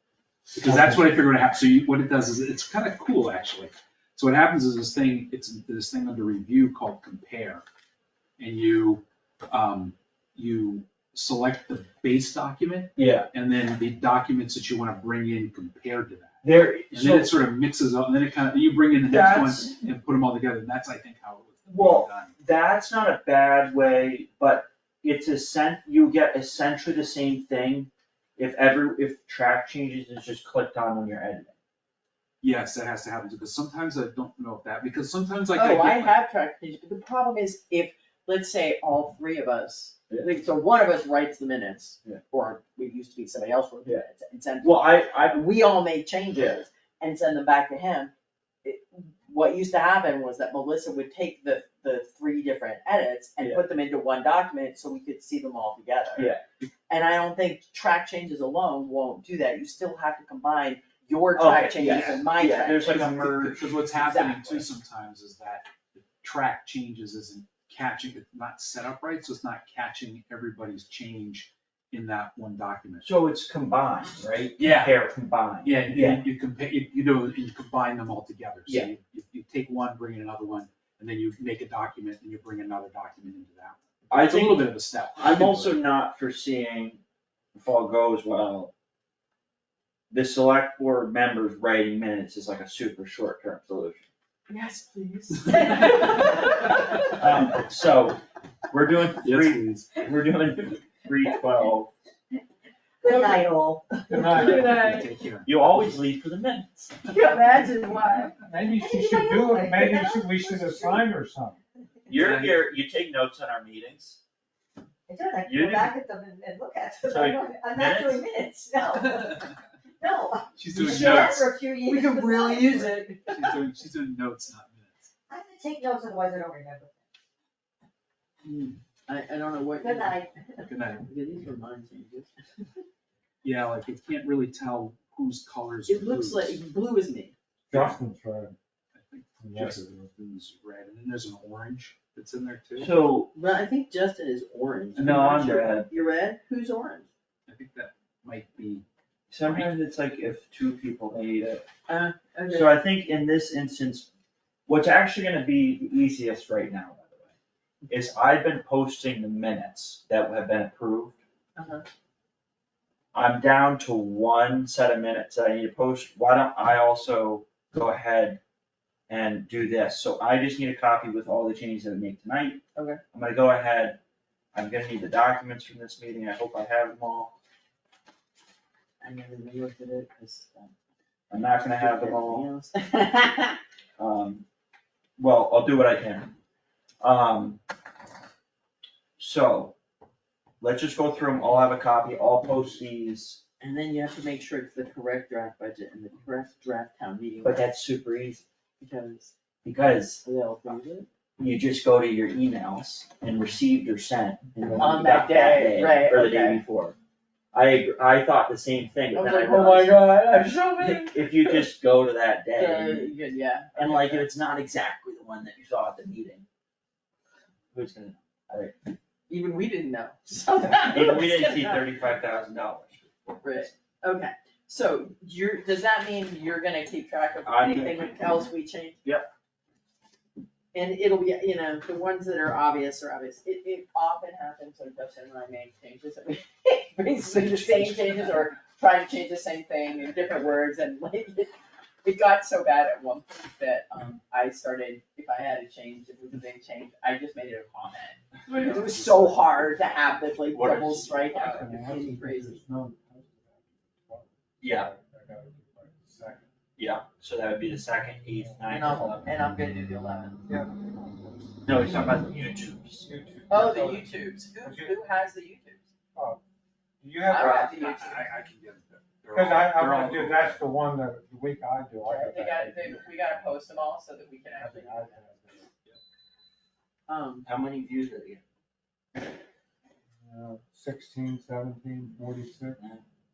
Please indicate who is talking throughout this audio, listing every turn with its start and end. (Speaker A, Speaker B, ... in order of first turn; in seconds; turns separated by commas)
Speaker A: 0.5-7.6, Speaker B: 0.6-1.2, Speaker A: 8.4-16.4, Speaker C: 13.0-13.3, Speaker C: 16.4-17.3, Speaker A: 16.9-22.4, Speaker C: 19.0-19.7, Speaker C: 21.7-31.6, Speaker A: 32.4-36.2, Speaker D: 35.5-48.1, Speaker C: 40.1-40.4, Speaker C: 44.6-45.5, Speaker D: 48.6-56.3, Speaker C: 56.2-56.4, Speaker D: 56.9-63.0, Speaker C: 61.4-63.7, Speaker A: 61.8-62.2, Speaker A: 62.8-73.1, Speaker D: 63.9-64.7, Speaker C: 73.0-76.2, Speaker A: 74.6-75.0, Speaker A: 75.6-85.8, Speaker C: 84.1-84.7, Speaker C: 85.2-87.0, Speaker C: 87.5-88.7, Speaker C: 90.1-94.1, Speaker D: 94.5-97.2, Speaker C: 97.1-101.9, Speaker A: 99.2-99.9, Speaker E: 103.0-104.2, Speaker D: 103.0-103.4, Speaker D: 104.0-105.1, Speaker B: 104.1-105.0, Speaker A: 104.1-105.9, Speaker C: 105.5-106.9, Speaker D: 107.1-108.4, Speaker B: 108.3-111.6, Speaker E: 108.7-111.1, Speaker C: 112.1-114.2, Speaker A: 112.2-112.6, Speaker E: 115.1-123.3, Speaker C: 115.5-116.0, Speaker C: 117.1-118.2, Speaker A: 120.6-121.5, Speaker D: 120.8-123.3, Speaker A: 123.3-125.1, Speaker E: 125.3-127.0, Speaker D: 128.4-130.2, Speaker E: 129.8-130.7, Speaker A: 130.7-131.1, Speaker D: 130.9-132.8, Speaker A: 133.4-136.6, Speaker D: 135.9-137.3, Speaker B: 137.7-138.6, Speaker C: 137.7-138.0, Speaker A: 138.9-142.9, Speaker B: 139.4-140.1, Speaker C: 142.8-143.3, Speaker D: 143.3-147.1, Speaker C: 145.0-145.9, Speaker A: 147.5-148.8, Speaker C: 149.3-151.7, Speaker D: 151.9-152.8, Speaker C: 152.5-154.1, Speaker C: 154.7-157.3, Speaker C: 157.9-161.2, Speaker D: 161.6-161.9, Speaker C: 163.1-168.4, Speaker C: 169.1-172.6, Speaker D: 172.8-173.0, Speaker C: 173.1-174.0, Speaker C: 174.5-177.3, Speaker D: 179.0-180.7, Speaker C: 181.3-182.4, Speaker D: 181.8-183.6, Speaker C: 184.0-184.4, Speaker C: 185.2-186.4, Speaker C: 187.0-187.6, Speaker C: 189.2-189.8, Speaker C: 190.6-193.4, Speaker D: 193.6-197.6, Speaker C: 197.4-198.4, Speaker D: 198.8-199.3, Speaker C: 199.6-200.2, Speaker D: 200.2-201.1, Speaker C: 201.4-206.9, Speaker B: 204.6-204.9, Speaker D: 204.7-206.6, Speaker C: 207.5-210.0, Speaker D: 209.1-211.7, Speaker C: 210.8-213.1, Speaker D: 212.5-214.3, Speaker C: 213.8-216.5, Speaker C: 217.7-218.8, Speaker D: 219.3-221.9, Speaker C: 220.9-223.8, Speaker D: 223.4-229.0, Speaker C: 227.4-228.5, Speaker C: 229.0-229.3, Speaker D: 230.7-241.5, Speaker D: 242.0-252.6, Speaker A: 248.5-249.5, Speaker C: 250.5-251.2, Speaker B: 251.3-256.5, Speaker C: 254.6-254.9, Speaker C: 256.8-259.3, Speaker B: 258.3-258.8, Speaker D: 258.7-260.4, Speaker B: 260.4-261.6, Speaker C: 261.6-263.1, Speaker B: 263.0-265.0, Speaker D: 263.5-265.9, Speaker B: 266.1-266.4, Speaker B: 267.0-267.5, Speaker D: 267.3-268.3, Speaker C: 267.4-267.9, Speaker A: 267.5-270.6, Speaker B: 269.3-273.1, Speaker D: 272.1-275.4, Speaker B: 274.6-275.7, Speaker D: 277.1-277.5, Speaker C: 277.4-278.4, Speaker B: 280.2-282.8